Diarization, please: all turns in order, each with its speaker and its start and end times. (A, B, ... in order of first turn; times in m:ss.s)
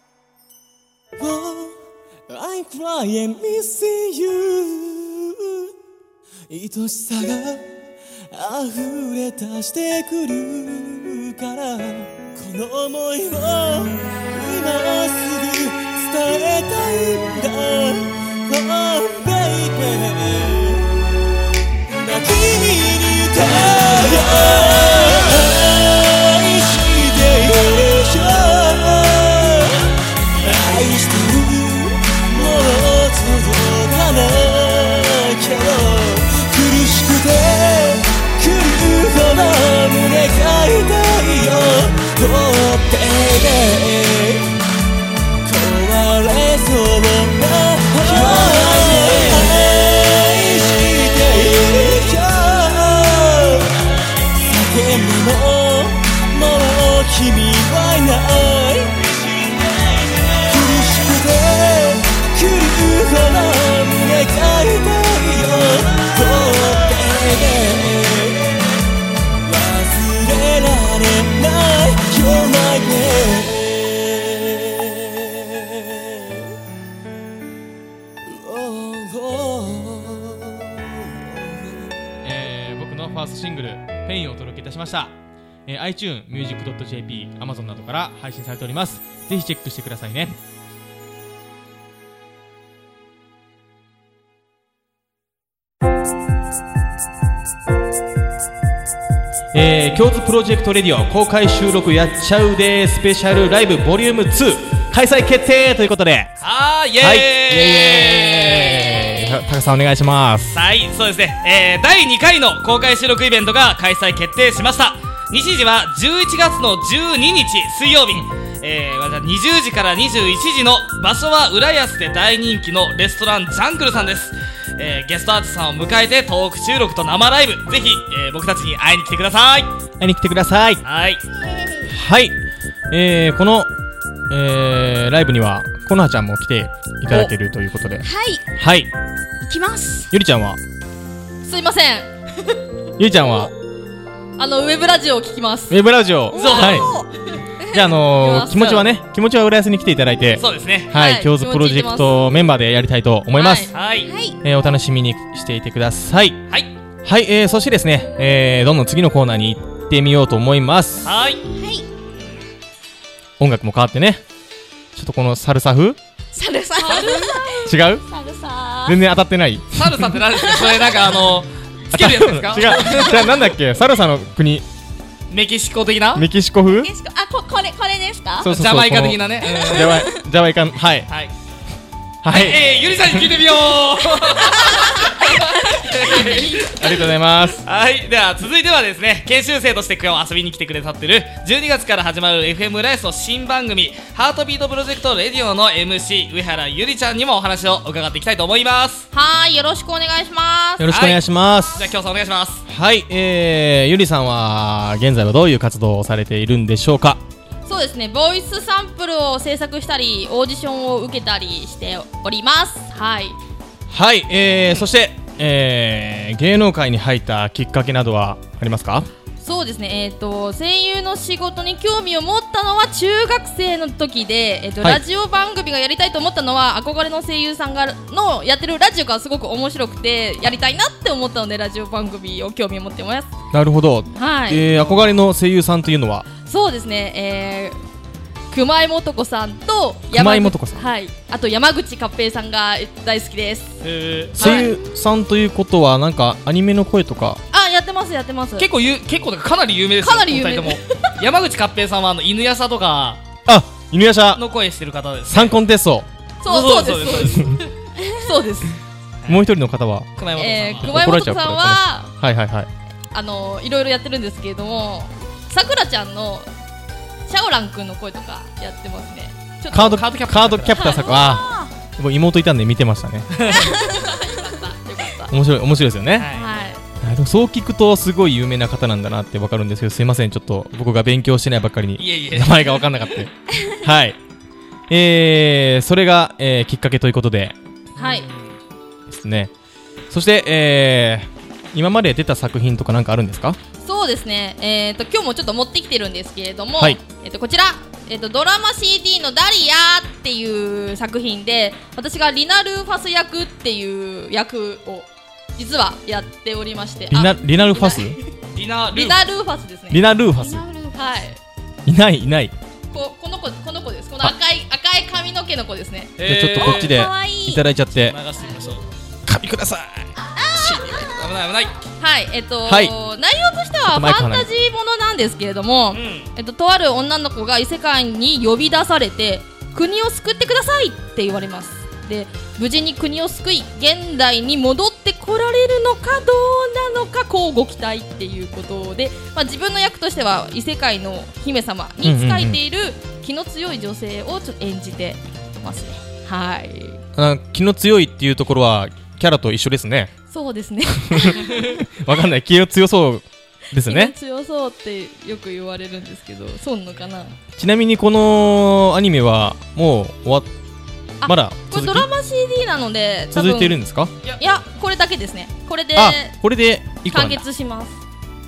0:01.2-0:05.7 A
0:06.5-0:07.6 A
0:08.3-0:21.0 A
0:21.9-0:44.5 A
0:45.4-1:08.9 A
1:09.4-1:16.5 A
1:18.2-1:21.9 A
1:22.2-1:25.2 B
1:25.7-1:30.4 B
1:39.5-1:46.3 B
1:46.4-1:49.2 C
1:47.0-1:50.6 B
1:50.5-2:09.7 C
2:10.0-2:10.8 B
2:10.8-2:11.2 C
2:11.4-2:11.9 D
2:11.9-2:12.4 B
2:12.9-2:13.7 B
2:14.3-2:18.9 B
2:18.0-2:18.4 D
2:19.4-2:20.1 D
2:20.1-2:20.6 B
2:21.4-2:22.1 E
2:23.0-2:23.5 B
2:24.4-2:25.8 E
2:25.7-2:26.9 B
2:26.3-2:27.1 D
2:26.3-2:26.9 C
2:27.7-2:33.7 B
2:28.2-2:28.9 E
2:30.4-2:30.9 C
2:30.9-2:32.1 E
2:33.4-2:33.7 E
2:33.7-2:34.1 C
2:34.0-2:34.4 D
2:34.4-2:36.4 B
2:37.0-2:41.1 B
2:41.0-2:41.4 C
2:41.5-2:41.8 D
2:43.4-2:44.2 B
2:44.9-2:46.0 B
2:46.3-2:49.0 D
2:46.8-2:47.4 E
2:46.8-2:47.2 C
2:47.6-2:48.0 B
2:48.8-2:50.1 B
2:49.8-2:53.4 C
2:50.3-2:51.1 D
2:51.9-2:54.6 B
2:55.3-2:56.2 C
2:56.1-2:56.9 B
2:56.7-2:58.5 D
2:58.4-3:01.1 B
2:58.4-3:00.1 C
2:59.5-3:00.2 D
3:01.1-3:01.3 C
3:02.2-3:03.4 B
3:02.3-3:07.1 C
3:04.4-3:05.7 D
3:06.6-3:07.6 B
3:07.6-3:19.1 C
3:19.1-3:20.9 E
3:20.8-3:21.9 B
3:20.9-3:21.2 C
3:21.7-3:22.6 C
3:22.7-3:27.2 B
3:27.7-3:33.4 E
3:33.9-3:39.1 B
3:39.4-3:53.3 E
3:53.5-3:56.3 B
3:54.1-3:54.6 E
3:54.7-3:55.0 C
3:56.4-3:57.8 E
3:58.5-4:03.8 E
4:00.1-4:00.8 B
4:03.8-4:04.7 C
4:04.4-4:04.8 E
4:04.4-4:07.4 B
4:07.5-4:08.7 E
4:08.6-4:13.2 C
4:10.0-4:11.1 E
4:13.4-4:14.4 B
4:14.3-4:15.6 C
4:15.3-4:16.1 B
4:16.4-4:18.8 E
4:16.5-4:17.6 C
4:19.3-4:20.1 B
4:20.2-4:21.0 C
4:20.4-4:22.1 E
4:20.8-4:22.7 B
4:23.1-4:26.5 E
4:27.3-4:30.0 E
4:29.7-4:33.3 B
4:29.7-4:30.9 C
4:30.7-4:31.4 E
4:31.0-4:31.7 D
4:33.3-4:33.7 C
4:33.5-4:35.3 E
4:33.6-4:34.1 D
4:35.3-4:36.3 B
4:36.2-4:36.6 C
4:36.3-4:36.8 E
4:37.0-4:44.2 B
4:42.0-4:42.8 C
4:44.9-4:47.6 B
4:48.0-4:48.3 E
4:48.0-4:48.5 C
4:49.1-4:49.5 B
4:50.1-4:53.6 B
4:53.8-5:08.2 E
5:07.1-5:08.2 B
5:08.5-5:09.2 C
5:08.9-5:10.0 E
5:09.9-5:10.6 B
5:10.4-5:11.2 D
5:11.0-5:11.4 E
5:11.8-5:12.5 B
5:12.9-5:16.1 E
5:16.2-5:17.0 C
5:16.2-5:18.2 B
5:16.6-5:17.6 D
5:18.0-5:18.8 C
5:19.2-5:21.2 B
5:20.3-5:21.3 D
5:21.1-5:21.7 C
5:22.0-5:47.0 E
5:22.6-5:22.9 B
5:23.9-5:24.5 B
5:25.9-5:26.3 C
5:42.0-5:42.6 B
5:47.2-5:50.1 B
5:50.3-5:51.8 E
5:51.1-5:54.1 B
5:53.8-5:57.3 E
5:57.6-6:00.5 B
6:01.2-6:03.8 E
6:01.2-6:02.1 B
6:03.3-6:04.1 B
6:04.4-6:06.3 E
6:06.0-6:07.4 B
6:07.1-6:08.0 E